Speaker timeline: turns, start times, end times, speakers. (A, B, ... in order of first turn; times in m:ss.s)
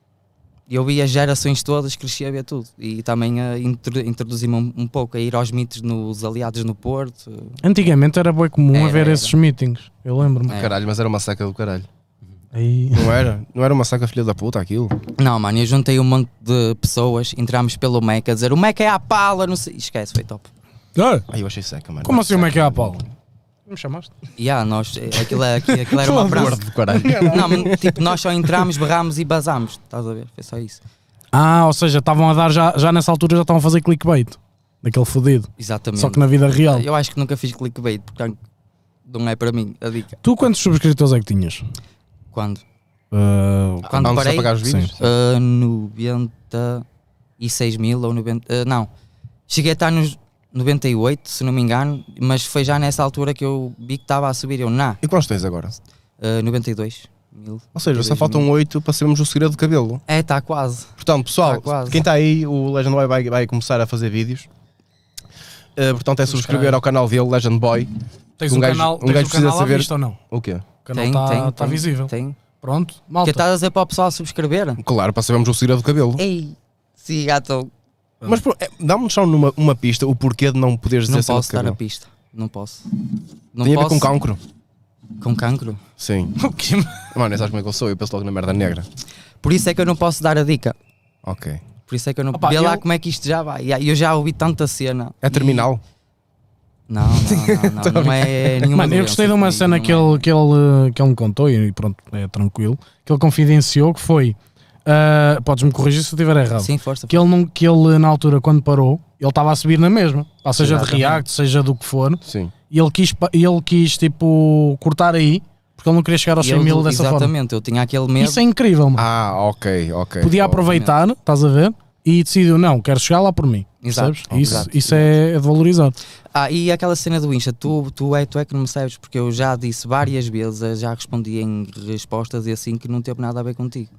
0:00.7-0:07.6 A
0:07.6-0:10.6 B
0:08.7-0:09.4 A
0:10.5-0:11.9 C
0:12.5-0:13.2 B
0:12.9-0:15.0 C
0:15.2-0:20.5 A
0:21.0-0:21.3 B
0:21.3-0:23.1 C
0:22.0-0:23.0 B
0:23.7-0:24.1 B
0:24.4-0:30.8 A
0:25.9-0:27.8 B
0:26.1-0:27.9 C
0:31.3-0:36.9 B
0:35.6-0:38.4 A
0:39.1-0:40.2 A
0:40.2-0:41.6 B
0:42.3-0:42.6 A
0:43.1-0:44.9 B
0:43.8-0:45.1 C
0:43.9-0:46.8 A
0:47.4-0:48.9 A
0:49.5-0:55.0 A
0:55.0-0:55.8 C
0:56.2-0:58.5 A
0:57.8-1:00.0 C
1:00.1-1:02.0 A
1:01.0-1:04.5 C
1:05.8-1:07.9 C
1:08.4-1:10.2 B
1:08.5-1:10.6 C
1:10.8-1:13.4 B
1:10.9-1:12.4 A
1:13.2-1:14.8 A
1:14.8-1:16.2 C
1:16.2-1:17.7 A
1:18.2-1:21.8 C
1:21.1-1:22.8 A
1:23.5-1:24.1 A
1:23.6-1:24.4 C
1:25.2-1:25.8 A
1:26.0-1:26.4 C
1:26.4-1:27.0 B
1:27.1-1:28.9 C
1:29.4-1:30.8 A
1:31.2-1:31.6 C
1:31.9-1:35.7 A
1:32.3-1:32.8 B
1:35.2-1:35.8 C
1:36.9-1:40.2 A
1:37.1-1:38.7 C
1:38.7-1:57.3 B
1:46.6-1:47.3 A
1:50.6-1:51.2 A
1:52.2-1:52.5 C
1:56.4-1:58.4 A
1:58.2-1:59.0 B
1:59.0-2:00.7 C
2:00.2-2:06.0 B
2:00.7-2:00.9 A
2:03.8-2:05.1 A
2:04.3-2:04.7 C
2:06.3-2:13.9 A